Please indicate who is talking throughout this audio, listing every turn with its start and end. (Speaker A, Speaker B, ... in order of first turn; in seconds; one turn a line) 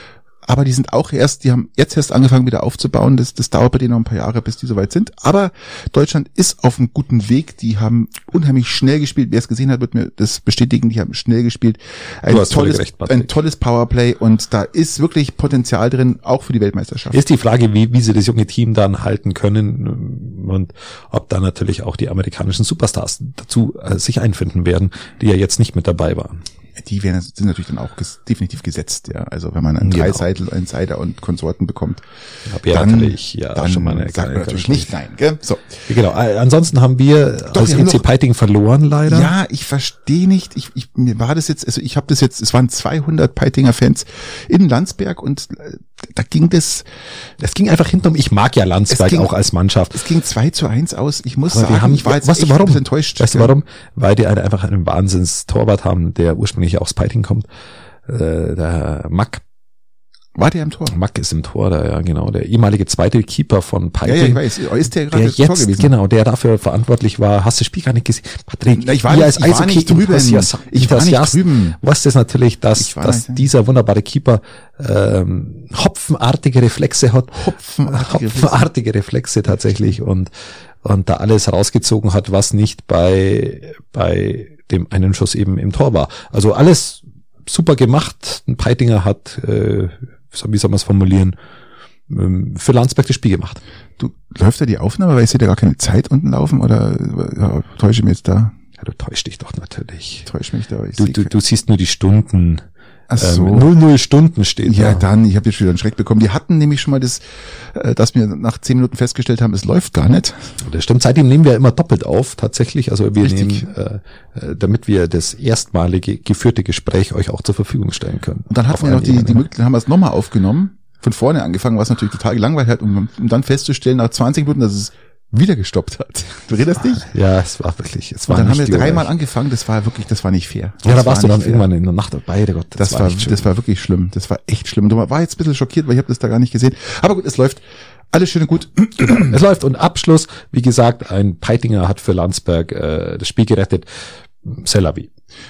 Speaker A: 0.5-17.2
Speaker B: 12.3-13.3
Speaker B: 17.1-26.4
Speaker A: 26.8-32.0
Speaker B: 29.8-30.2
Speaker B: 32.5-34.9
Speaker A: 32.6-35.8
Speaker B: 35.9-39.3
Speaker A: 37.5-38.0
Speaker A: 39.1-46.9
Speaker B: 47.4-50.0
Speaker A: 48.9-49.3
Speaker A: 49.9-53.5
Speaker B: 51.5-57.5
Speaker B: 58.0-59.4
Speaker A: 60.4-60.9
Speaker B: 60.9-64.4
Speaker A: 64.0-65.9
Speaker B: 65.1-80.3
Speaker A: 68.7-71.8
Speaker A: 72.8-73.5
Speaker A: 77.3-78.7
Speaker B: 80.8-91.3
Speaker B: 92.1-93.6
Speaker A: 94.0-98.5
Speaker B: 98.8-100.3
Speaker A: 100.3-101.3
Speaker B: 101.0-102.6
Speaker A: 103.1-103.7
Speaker B: 103.2-105.0
Speaker A: 104.7-110.5
Speaker B: 110.6-119.4
Speaker A: 113.2-113.7
Speaker A: 118.5-127.1
Speaker B: 127.0-129.1
Speaker A: 128.3-131.7
Speaker B: 130.8-133.4
Speaker A: 132.8-139.3
Speaker B: 139.0-143.9
Speaker B: 144.4-145.1